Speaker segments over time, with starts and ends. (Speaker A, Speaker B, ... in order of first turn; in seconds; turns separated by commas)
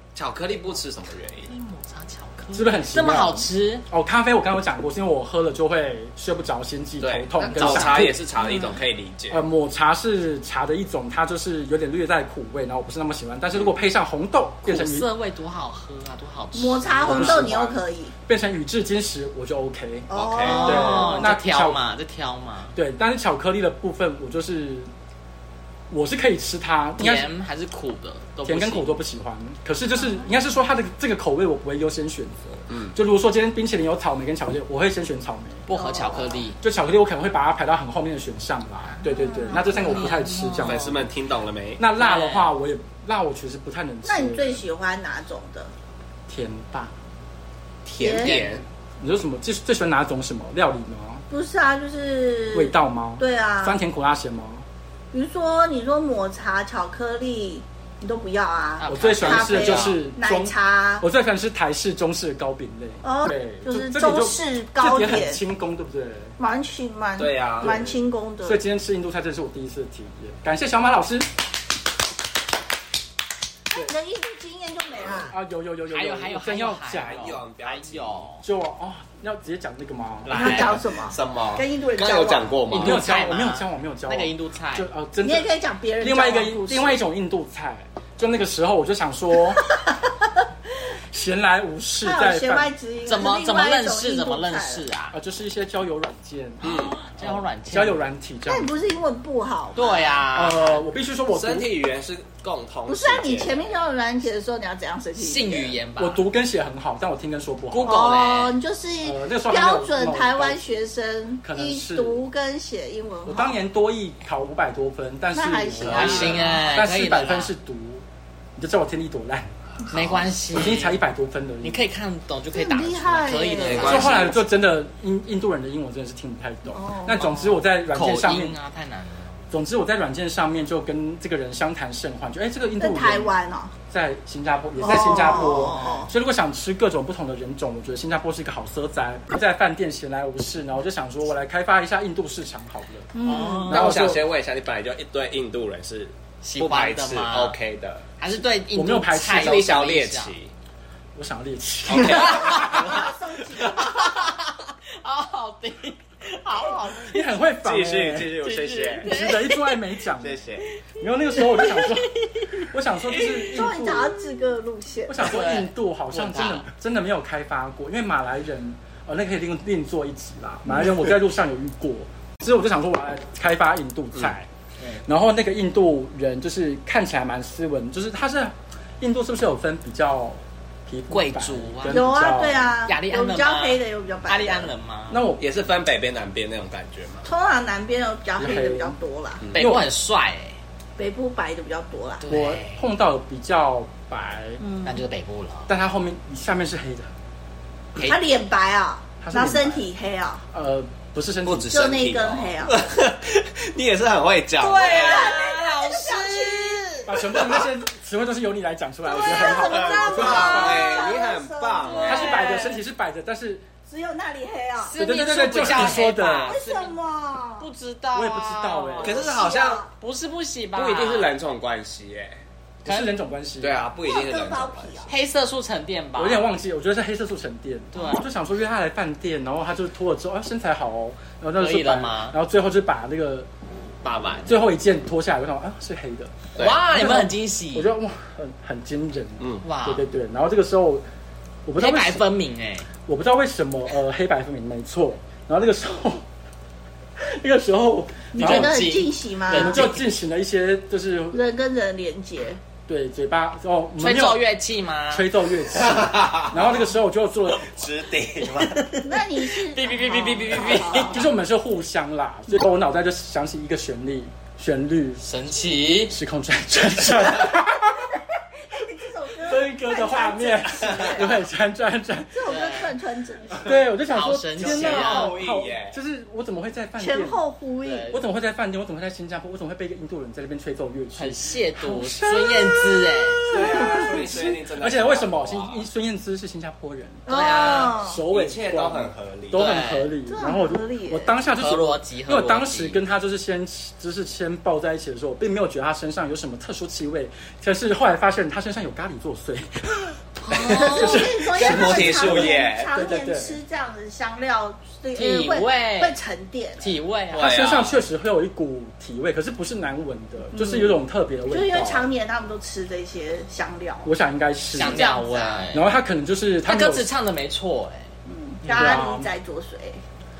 Speaker A: 0.1-1.5, Speaker B: 1.5-3.8, Speaker C: 2.5-8.2, Speaker A: 7.0-9.4, Speaker B: 7.5-8.1, Speaker D: 8.4-8.7, Speaker C: 9.3-15.1, Speaker B: 14.6-17.7, Speaker D: 16.5-18.1, Speaker C: 17.1-21.8, Speaker D: 20.1-21.3, Speaker A: 20.1-20.9, Speaker B: 20.4-22.7, Speaker C: 22.7-24.9, Speaker C: 25.9-27.3, Speaker B: 27.0-28.9, Speaker C: 28.4-35.7, Speaker A: 32.7-32.9, Speaker B: 35.7-36.6, Speaker D: 35.7-36.4, Speaker C: 36.6-41.0, Speaker B: 39.0-41.0, Speaker D: 39.1-40.0, Speaker A: 40.6-41.8, Speaker C: 41.8-44.6, Speaker B: 42.0-42.5, Speaker D: 44.0-45.7, Speaker C: 46.3-46.9, Speaker A: 47.9-48.6, Speaker D: 48.0-48.4, Speaker B: 48.2-48.5, Speaker C: 49.0-51.2, Speaker D: 51.3-53.8, Speaker C: 52.5-54.6, Speaker D: 55.1-61.0, Speaker B: 58.8-60.0, Speaker C: 58.9-66.3, Speaker D: 63.0-65.4, Speaker D: 66.4-68.6, Speaker A: 67.2-67.9, Speaker C: 67.6-67.9, Speaker C: 68.4-71.3, Speaker D: 73.7-75.3, Speaker C: 75.3-77.4, Speaker B: 75.9-78.4, Speaker A: 77.0-78.2, Speaker C: 78.4-80.8, Speaker B: 80.2-80.8, Speaker D: 80.3-82.6, Speaker A: 80.4-83.0, Speaker B: 82.7-84.9, Speaker C: 82.7-85.5, Speaker D: 85.2-87.0, Speaker C: 86.0-89.6, Speaker D: 89.6-90.1, Speaker C: 91.1-92.7, Speaker D: 92.0-94.8, Speaker B: 93.0-95.2, Speaker C: 95.1-98.7, Speaker B: 96.6-98.0, Speaker A: 96.6-97.0, Speaker D: 98.5-100.2, Speaker B: 99.7-100.8, Speaker C: 100.3-101.7, Speaker A: 101.3-103.8, Speaker D: 102.9-105.8, Speaker B: 105.2-106.2, Speaker C: 106.0-108.0, Speaker B: 107.7-108.6, Speaker D: 107.8-113.6, Speaker C: 109.0-110.6, Speaker C: 111.4-112.2, Speaker C: 113.2-118.0, Speaker D: 115.3-116.5, Speaker B: 115.8-117.5, Speaker A: 116.1-116.5, Speaker C: 118.5-119.5, Speaker B: 119.9-121.0, Speaker C: 120.5-121.8, Speaker B: 121.6-124.3, Speaker D: 122.5-124.1, Speaker A: 123.6-124.4, Speaker C: 123.8-128.6, Speaker D: 126.7-127.4, Speaker B: 127.9-129.4, Speaker C: 129.5-133.3, Speaker D: 132.8-133.7, Speaker C: 133.9-143.1, Speaker D: 134.8-136.1, Speaker B: 135.1-136.1, Speaker D: 143.1-143.8, Speaker B: 143.2-144.0, Speaker C: 143.7-144.2, Speaker A: 143.7-148.0, Speaker B: 146.4-147.6, Speaker B: 148.2-150.3, Speaker C: 148.7-149.7, Speaker A: 149.3-150.5, Speaker C: 151.1-153.0, Speaker A: 151.9-153.8, Speaker B: 152.2-152.9, Speaker D: 152.5-154.3, Speaker B: 153.7-157.3, Speaker C: 157.0-158.4, Speaker A: 157.6-159.1, Speaker B: 158.4-159.8, Speaker C: 159.0-160.4, Speaker A: 160.2-160.7, Speaker C: 161.0-164.2, Speaker B: 161.4-163.6, Speaker D: 163.5-165.3, Speaker C: 165.1-174.5, Speaker B: 165.2-166.7, Speaker C: 175.0-182.7, Speaker B: 181.1-182.0, Speaker D: 181.9-184.7, Speaker B: 182.8-185.2, Speaker C: 185.1-185.4, Speaker A: 185.4-187.3, Speaker D: 187.2-189.4, Speaker C: 188.4-188.9, Speaker A: 189.4-189.7, Speaker B: 189.5-190.6, Speaker C: 189.5-189.9, Speaker D: 191.0-192.2, Speaker B: 192.2-192.8, Speaker C: 192.3-194.6, Speaker D: 194.6-195.0, Speaker B: 194.8-195.7, Speaker C: 195.7-197.1, Speaker D: 198.0-200.4, Speaker C: 199.2-199.9, Speaker C: 200.5-201.7, Speaker A: 201.4-205.4, Speaker D: 201.7-202.8, Speaker B: 204.6-207.2, Speaker D: 204.8-207.0, Speaker C: 207.0-211.1, Speaker A: 207.3-207.7, Speaker D: 209.1-212.8, Speaker A: 209.3-212.3, Speaker B: 210.2-210.7, Speaker B: 211.8-212.8, Speaker C: 212.0-213.6, Speaker D: 213.9-214.9, Speaker B: 214.8-216.9, Speaker C: 214.9-216.6, Speaker D: 216.4-217.7, Speaker B: 217.6-219.2, Speaker C: 218.1-219.2, Speaker A: 219.0-219.8, Speaker D: 219.0-219.9, Speaker B: 220.0-221.4, Speaker A: 220.7-222.4, Speaker B: 222.8-223.1, Speaker C: 222.8-223.8, Speaker A: 223.6-225.1, Speaker D: 224.0-225.1, Speaker B: 225.1-226.5, Speaker C: 226.2-233.5, Speaker B: 227.9-228.2, Speaker B: 231.6-232.3, Speaker A: 234.0-234.5, Speaker C: 234.4-241.0, Speaker A: 236.6-236.8, Speaker B: 236.6-237.9, Speaker A: 239.4-239.7, Speaker B: 239.6-240.0, Speaker C: 241.7-242.2, Speaker B: 241.8-242.9, Speaker C: 243.1-246.2, Speaker C: 247.2-248.8, Speaker D: 248.3-249.9, Speaker B: 248.4-250.0, Speaker C: 249.5-251.4, Speaker D: 251.3-252.6, Speaker C: 252.9-254.4, Speaker B: 254.0-255.3, Speaker C: 255.1-257.8, Speaker A: 255.7-256.8, Speaker A: 257.6-259.0, Speaker D: 259.0-261.2, Speaker B: 259.4-261.2, Speaker C: 260.9-265.2, Speaker B: 265.2-266.1, Speaker C: 266.1-268.1, Speaker D: 268.7-271.4, Speaker C: 269.4-272.5, Speaker A: 270.9-271.1, Speaker D: 272.3-273.7, Speaker B: 272.4-272.9, Speaker C: 273.6-277.4, Speaker B: 274.1-275.4, Speaker A: 274.6-276.0, Speaker D: 277.0-278.1, Speaker B: 277.8-278.2, Speaker C: 278.1-303.6, Speaker B: 281.1-283.5, Speaker A: 283.5-285.8, Speaker D: 287.2-288.2, Speaker B: 287.3-288.0, Speaker A: 288.3-289.7, Speaker B: 289.5-290.1, Speaker D: 290.3-291.3, Speaker B: 291.6-293.0, Speaker B: 300.4-301.3, Speaker A: 300.5-303.0, Speaker D: 300.7-306.9, Speaker B: 305.1-306.1, Speaker B: 306.8-307.7, Speaker A: 307.3-308.0, Speaker C: 307.3-312.1, Speaker D: 310.5-314.1, Speaker C: 314.0-315.1, Speaker B: 314.7-315.9, Speaker D: 314.8-315.7, Speaker C: 315.7-317.1, Speaker B: 316.6-318.1, Speaker D: 318.2-320.0, Speaker C: 318.6-319.3, Speaker B: 318.7-318.9